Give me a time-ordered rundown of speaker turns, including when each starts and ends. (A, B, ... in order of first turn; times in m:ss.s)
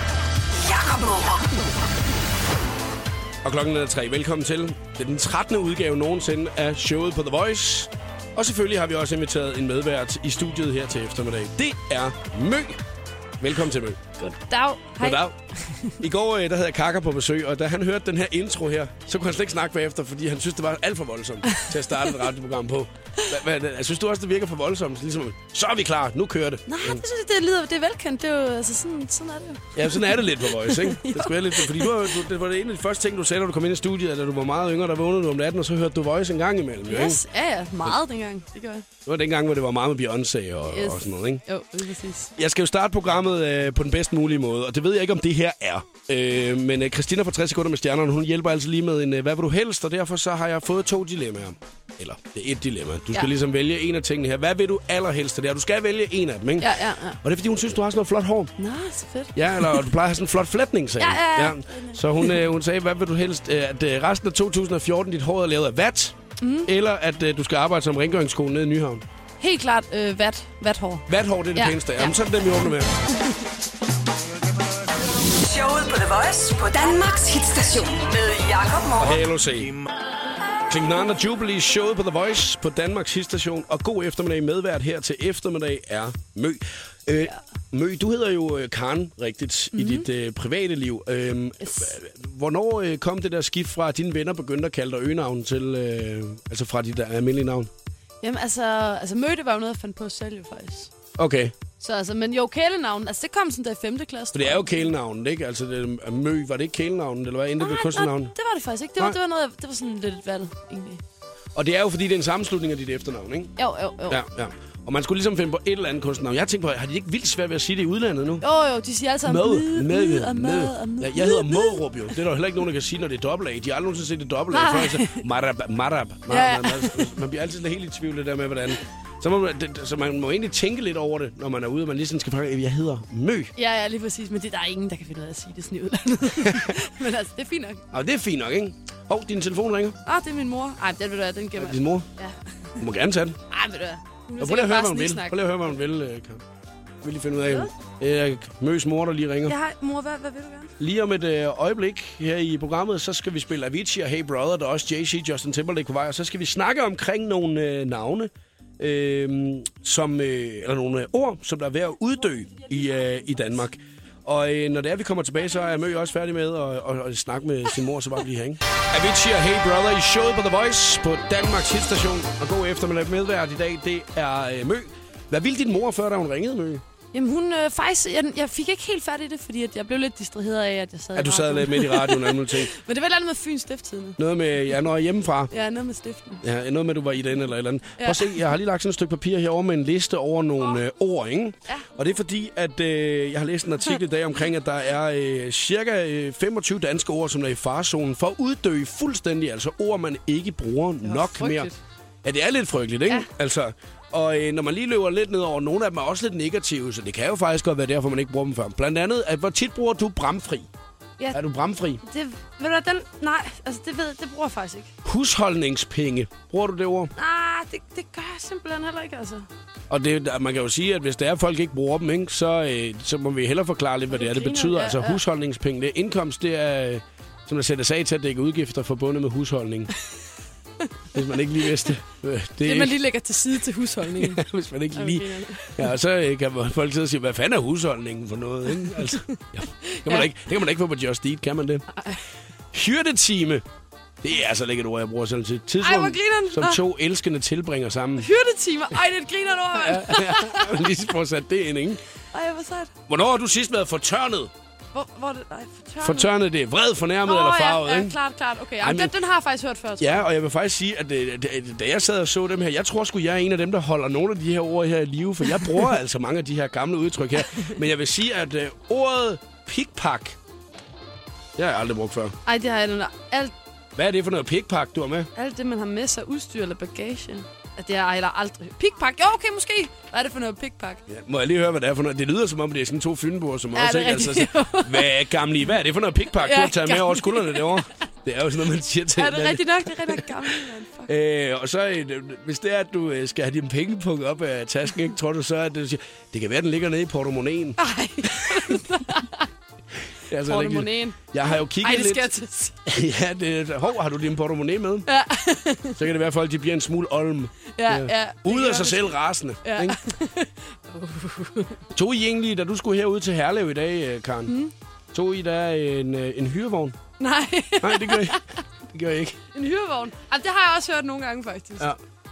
0:00.5-0:01.6 A
0:03.4-0:12.8 B
0:13.4-0:14.1 B
0:14.2-0:16.0 C
0:15.0-0:15.4 B
0:16.0-0:27.0 B
0:26.7-0:32.2 C
0:29.8-0:37.2 B
0:36.9-0:38.9 C
0:39.0-0:41.4 B
0:40.6-0:42.3 C
0:42.4-0:58.5 B
0:56.6-0:57.2 C
0:58.6-0:59.9 C
0:59.4-1:09.0 B
1:01.0-1:02.4 C
1:06.4-1:06.7 C
1:09.4-1:12.2 C
1:11.1-1:12.9 B
1:13.1-1:13.4 C
1:15.3-1:19.2 A
1:19.0-1:19.8 B
1:20.7-1:37.7 B
1:29.7-1:30.1 C
1:31.6-1:31.9 C
1:38.2-1:40.9 C
1:41.2-1:41.6 B
1:41.8-1:44.9 C
1:44.3-1:48.3 B
1:47.6-1:51.0 C
1:51.6-1:53.5 B
1:53.6-1:54.2 C
1:54.1-1:58.5 B
1:58.4-2:01.8 C
1:59.2-2:13.5 B
2:04.5-2:05.2 C
2:06.3-2:07.1 C
2:13.6-2:17.9 C
2:16.4-2:16.7 B
2:17.9-2:20.0 B
2:20.1-2:22.8 C
2:21.6-2:22.1 B
2:22.8-2:23.4 B
2:23.5-2:25.4 C
2:24.4-2:26.4 B
2:27.0-2:29.6 B
2:27.4-2:27.7 C
2:29.5-2:30.7 C
2:30.8-2:56.8 B
2:42.3-2:43.7 C
2:57.1-3:04.2 C
3:01.1-3:02.7 B
3:04.2-3:05.5 B
3:05.5-3:06.5 C
3:06.4-3:21.7 B
3:08.0-3:08.4 C
3:21.0-3:21.8 C
3:22.2-3:30.7 B
3:31.3-3:32.0 B
3:32.0-3:34.9 C
3:35.0-3:37.1 B
3:37.2-3:39.5 C
3:39.9-3:49.9 B
3:44.1-3:45.2 C
3:51.1-3:53.0 B
3:52.6-3:54.4 C
3:54.2-4:01.9 B
3:55.0-3:55.9 C
3:58.8-4:00.3 C
4:01.9-4:02.2 C
4:02.7-4:03.6 B
4:04.2-4:08.3 B
4:05.8-4:06.8 C
4:08.2-4:10.9 C
4:09.8-4:12.0 B
4:12.3-4:12.9 C
4:13.1-4:14.5 B
4:14.9-4:16.3 C
4:16.0-4:18.2 B
4:17.2-4:20.3 C
4:18.8-4:19.1 B
4:20.0-4:30.4 B
4:31.6-4:32.4 B
4:32.5-4:33.5 C
4:34.0-4:35.3 B
4:35.4-4:41.0 C
4:41.1-4:58.8 B
4:43.8-4:45.1 C
4:46.4-4:47.9 C
4:49.2-4:51.1 C
4:57.8-4:59.5 C
5:00.3-5:02.3 B
5:00.4-5:02.9 C
5:02.9-5:05.1 B
5:05.1-5:06.0 C
5:05.9-5:10.0 B
5:07.8-5:11.8 C
5:11.9-5:14.6 B
5:14.5-5:14.7 C
5:15.1-5:17.0 B
5:17.2-5:18.6 C
5:17.8-5:18.4 B
5:18.9-5:19.4 B
5:19.5-5:21.9 C